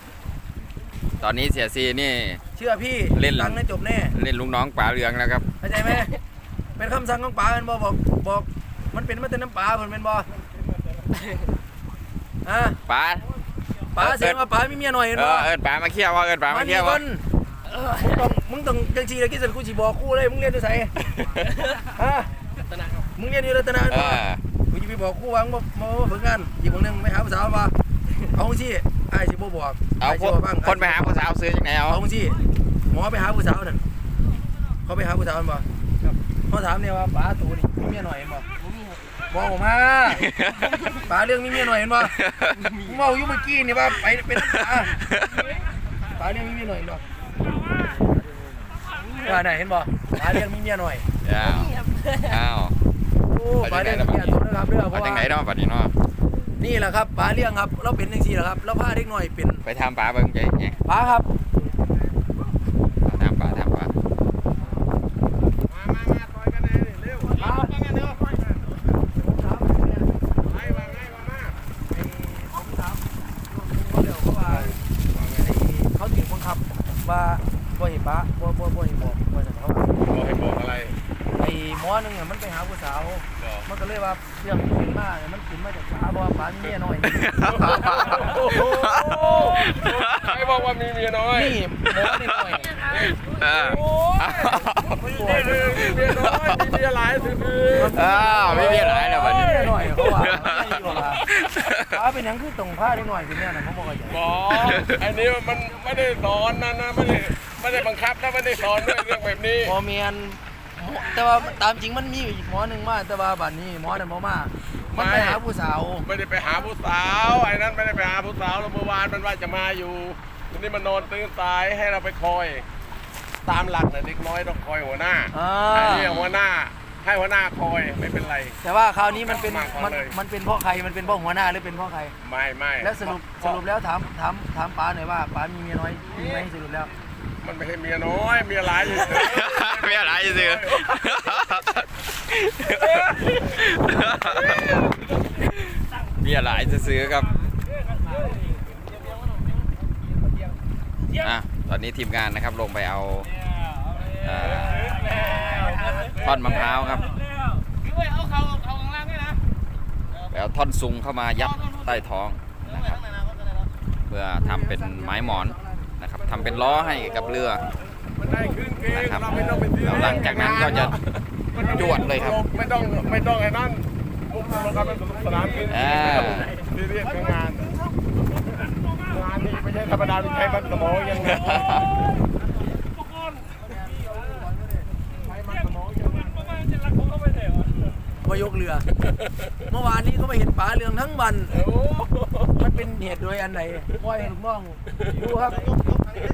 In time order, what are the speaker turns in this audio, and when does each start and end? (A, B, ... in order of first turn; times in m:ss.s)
0:01.2-0:02.4 A
0:02.6-0:04.1 B
0:03.2-0:03.6 A
0:04.1-0:05.4 A
0:05.6-0:06.1 B
0:06.8-0:10.3 B
0:12.4-0:12.8 B
0:12.9-0:13.3 A
0:14.0-0:15.5 B
0:14.0-0:14.4 A
0:15.1-0:17.0 A
0:16.5-0:17.2 B
0:17.9-0:21.0 B
0:21.7-0:22.3 B
0:23.2-0:27.7 B
0:23.9-0:24.4 A
0:28.3-0:31.2 B
0:30.0-0:32.0 A
0:31.9-0:32.4 B
0:32.9-0:33.8 B
0:34.9-0:35.7 B
0:36.5-0:38.5 B
0:39.3-0:40.3 B
0:40.1-0:40.9 A
0:40.9-0:42.2 B
0:42.0-0:42.6 A
0:42.8-0:45.0 B
0:44.4-0:45.5 A
0:46.1-0:47.0 B
0:49.2-0:51.1 B
0:51.2-0:52.8 A
0:53.2-0:55.3 B
0:53.6-0:55.9 A
0:56.6-0:59.6 B
0:59.6-1:00.8 A
1:00.9-1:01.3 B
1:03.0-1:03.9 A
1:05.7-1:08.4 C
1:07.4-1:07.8 B
1:09.2-1:10.1 B
1:10.4-1:11.6 C
1:11.9-1:14.8 B
1:14.4-1:15.5 C
1:15.4-1:19.9 B
1:20.1-1:21.0 C
1:21.4-1:27.2 B
1:23.4-1:23.6 C
1:27.1-1:30.4 A
1:27.7-1:31.6 C
1:31.3-1:33.1 B
1:32.9-1:34.9 A
1:34.4-1:35.6 B
1:35.1-1:38.0 C
1:35.6-1:36.2 A
1:37.7-1:41.2 B
1:37.9-1:42.0 A
1:38.5-1:39.7 C
1:41.9-1:44.2 B
1:44.1-1:49.7 C
1:44.6-1:45.0 A
1:49.6-1:56.0 B
1:54.9-1:55.4 C
1:56.0-2:02.6 C
2:03.4-2:08.6 C
2:05.3-2:06.1 B
2:05.8-2:06.4 A
2:08.6-2:12.1 B
2:09.2-2:10.1 C
2:12.2-2:13.6 C
2:12.8-2:16.9 B
2:17.4-2:20.9 C
2:18.8-2:27.4 A
2:31.2-2:33.3 A
2:34.2-2:35.1 A
2:36.0-2:37.2 A
2:40.3-2:43.1 A
2:44.1-2:47.6 A
2:44.8-2:45.4 B
2:48.2-2:57.8 C
2:48.9-2:51.0 A
2:51.7-2:52.4 A
2:54.4-2:55.9 B
2:55.7-2:56.6 A
2:59.0-3:01.8 C
3:01.3-3:01.9 A
3:03.6-3:04.9 B
3:05.3-3:06.5 C
3:08.2-3:08.9 B
3:09.7-3:11.6 B
3:11.6-3:12.5 C
3:12.6-3:15.7 B